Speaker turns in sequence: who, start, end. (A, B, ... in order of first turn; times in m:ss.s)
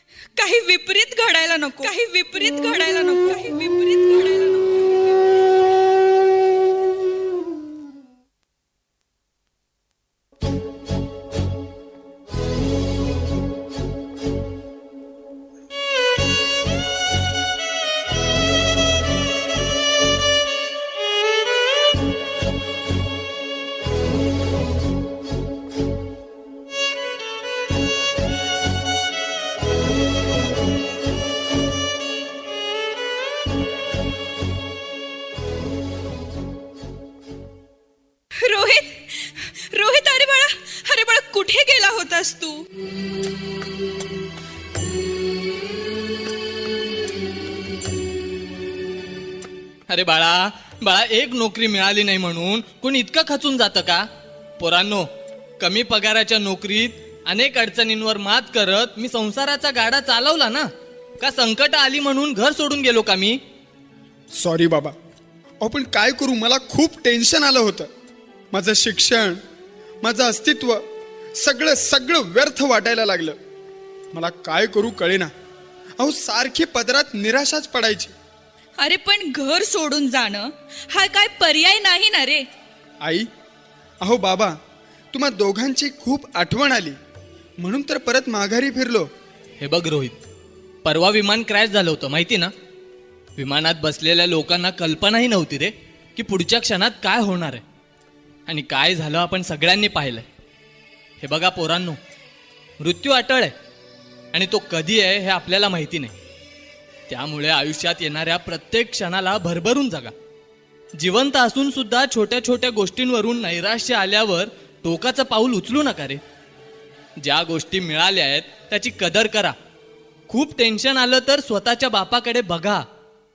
0:00.3-0:05.2 A
0:38.4-0:42.6 A
0:49.9-0:54.1 B
0:54.6-0:55.1 B
0:55.6-1:03.4 B
1:04.3-1:04.9 C
1:05.6-1:07.9 C
1:08.5-1:09.4 C
1:10.0-1:10.8 C
1:11.3-1:13.4 C
1:14.1-1:15.3 C
1:16.0-1:18.1 C
1:18.8-1:22.4 A
1:23.0-1:23.3 C
1:24.0-1:24.6 C
1:25.1-1:27.0 C
1:27.6-1:29.1 C
1:29.6-1:30.2 B
1:30.8-1:32.5 B
1:33.4-1:37.6 B
1:38.5-1:40.2 B
1:41.2-1:42.0 B
1:42.8-1:43.5 B
1:44.3-1:46.1 B
1:47.1-1:50.1 B
1:50.9-1:56.2 B
1:57.2-1:59.6 B
2:00.3-2:02.8 B